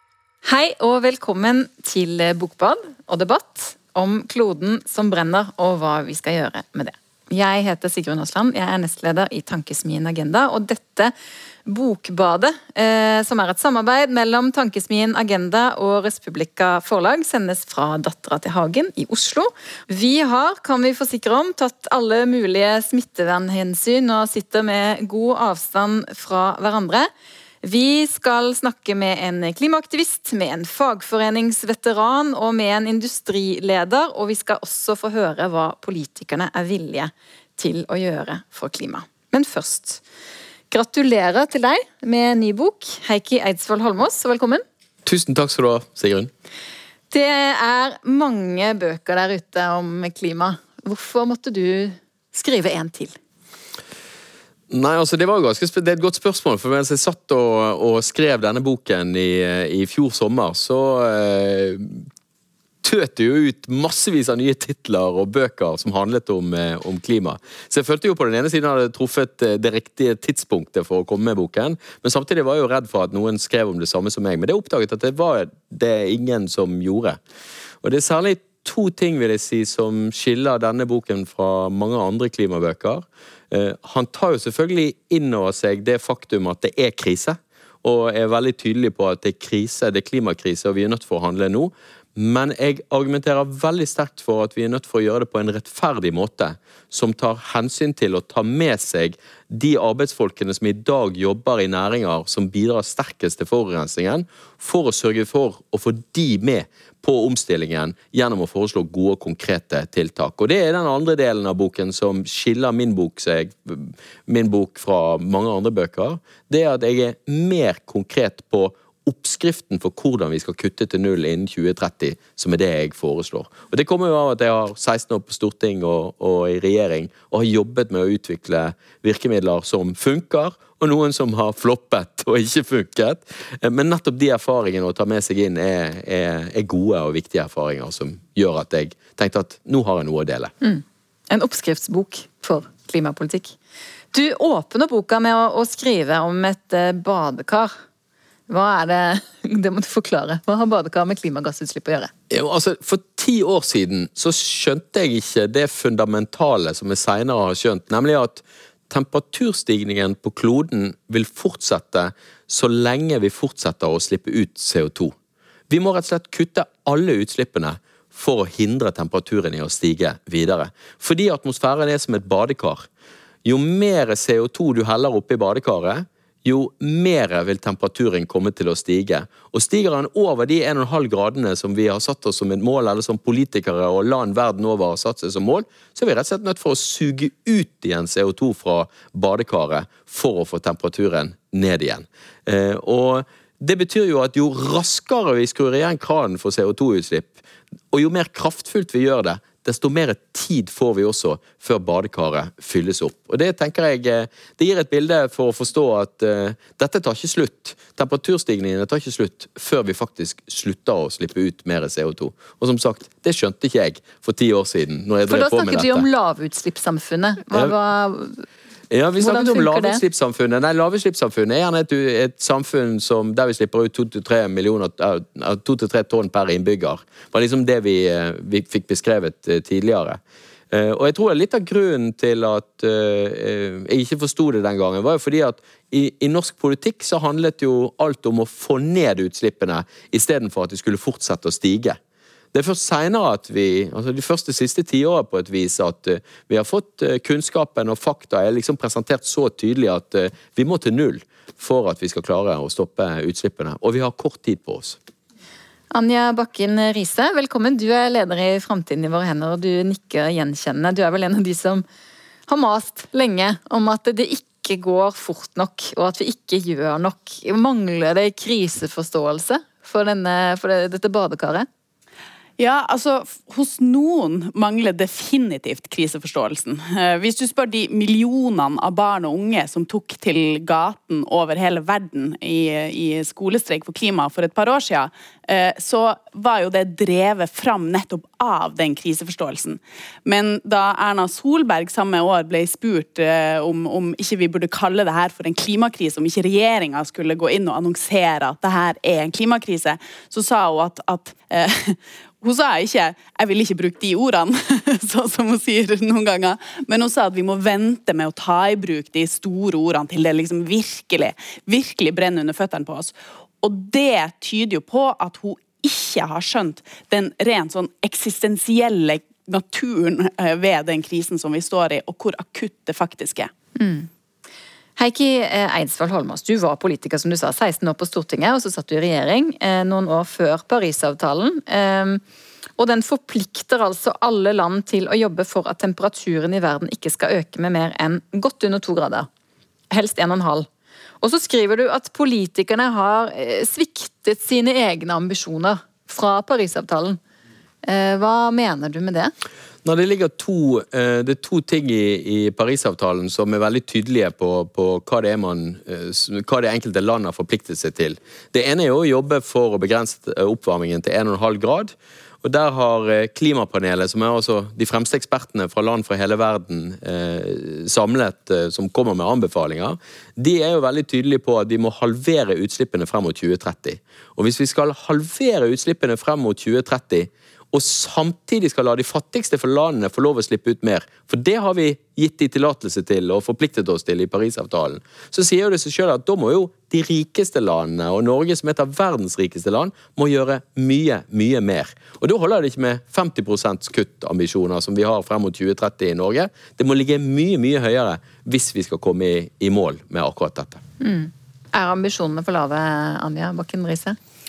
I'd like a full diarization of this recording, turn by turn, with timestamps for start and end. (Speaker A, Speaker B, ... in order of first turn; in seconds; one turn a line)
Speaker A: 0.4-11.1
Speaker A: 11.7-27.1
Speaker A: 27.6-40.0
Speaker A: 40.7-44.6
Speaker B: 45.0-46.3
Speaker A: 47.1-53.1
Speaker B: 54.7-62.0
Speaker B: 62.8-77.2
Speaker B: 77.8-140.5
Speaker A: 140.6-143.5
Speaker A: 144.1-147.7
Speaker A: 148.5-152.1
Speaker B: 152.3-165.1
Speaker B: 165.7-172.9
Speaker B: 173.4-197.4
Speaker B: 197.9-216.1
Speaker A: 215.3-218.4
Speaker B: 218.9-230.2
Speaker A: 219.2-220.0
Speaker B: 230.7-242.0
Speaker B: 242.5-255.0
Speaker A: 255.9-261.8
Speaker A: 262.5-271.7
Speaker C: 272.6-323.5
Speaker A: 323.8-324.1
Speaker A: 325.0-332.2
Speaker A: 332.8-339.3
Speaker A: 339.9-340.7
Speaker A: 341.2-347.2
Speaker A: 347.8-349.3
Speaker B: 349.8-400.8
Speaker A: 401.0-404.2